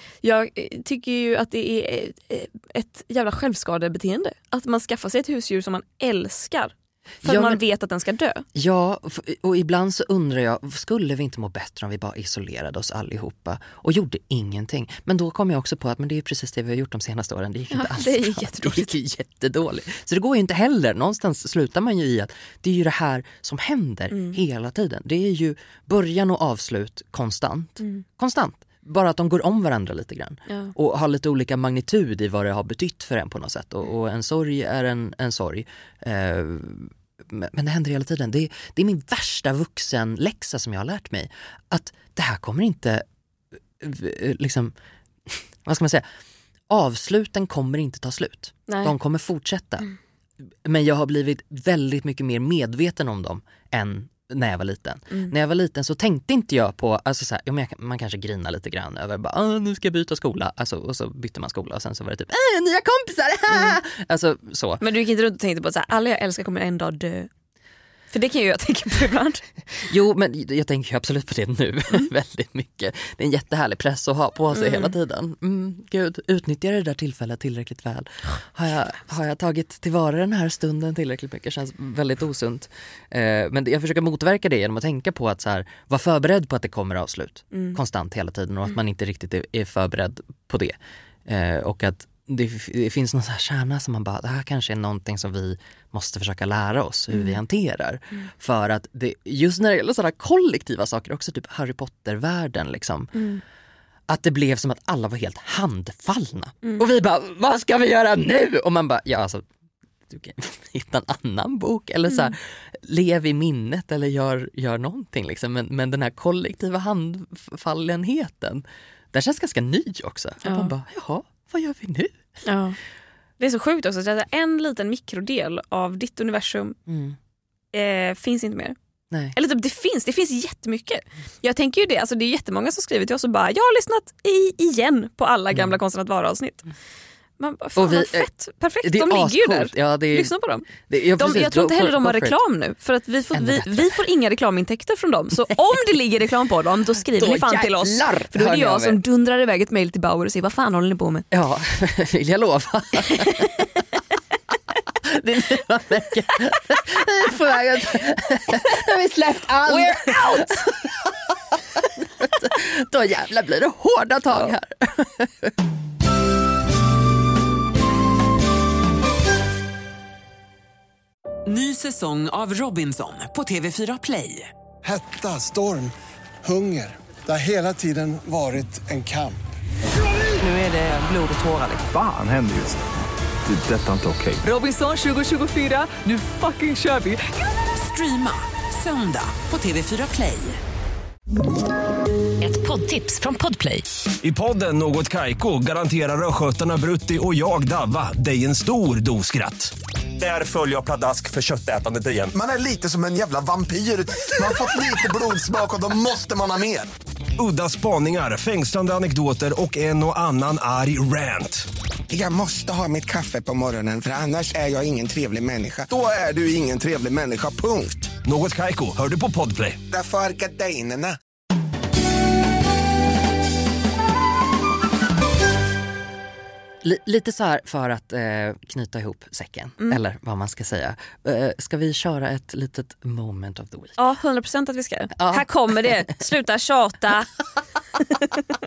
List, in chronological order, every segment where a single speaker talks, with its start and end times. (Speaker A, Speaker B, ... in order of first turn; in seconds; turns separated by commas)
Speaker A: 0.2-8.4, Speaker B: 7.2-7.6, Speaker B: 8.6-43.0, Speaker A: 17.7-19.0, Speaker A: 24.1-24.4, Speaker A: 30.5-30.7, Speaker B: 43.8-44.7, Speaker B: 45.3-46.1, Speaker B: 46.7-49.9, Speaker A: 48.7-48.9, Speaker B: 50.6-64.8, Speaker A: 64.8-67.3, Speaker A: 68.1-69.4, Speaker B: 69.9-103.1, Speaker A: 74.5-74.9, Speaker A: 103.2-103.4, Speaker B: 104.1-109.5, Speaker B: 110.1-122.2, Speaker A: 120.5-120.7, Speaker A: 122.4-122.8, Speaker A: 123.4-126.8, Speaker B: 126.9-127.2, Speaker A: 127.7-128.8, Speaker B: 129.1-129.4, Speaker A: 129.3-136.7, Speaker A: 137.4-151.3, Speaker B: 137.8-138.3, Speaker B: 138.8-142.4, Speaker B: 143.3-144.0, Speaker B: 147.1-149.0, Speaker B: 151.3-153.8, Speaker B: 155.0-165.5, Speaker A: 159.7-160.7, Speaker C: 171.5-174.5, Speaker D: 174.8-175.9, Speaker D: 176.4-179.4, Speaker C: 180.4-181.9, Speaker E: 181.9-182.8, Speaker E: 183.5-184.5, Speaker C: 184.4-187.2, Speaker C: 187.8-190.6, Speaker C: 192.4-193.9, Speaker F: 194.2-202.3, Speaker G: 202.3-206.9, Speaker F: 207.4-211.7, Speaker G: 212.1-218.2, Speaker F: 218.2-219.8, Speaker G: 219.9-221.2, Speaker B: 226.8-234.0, Speaker A: 234.0-237.3, Speaker B: 235.2-236.1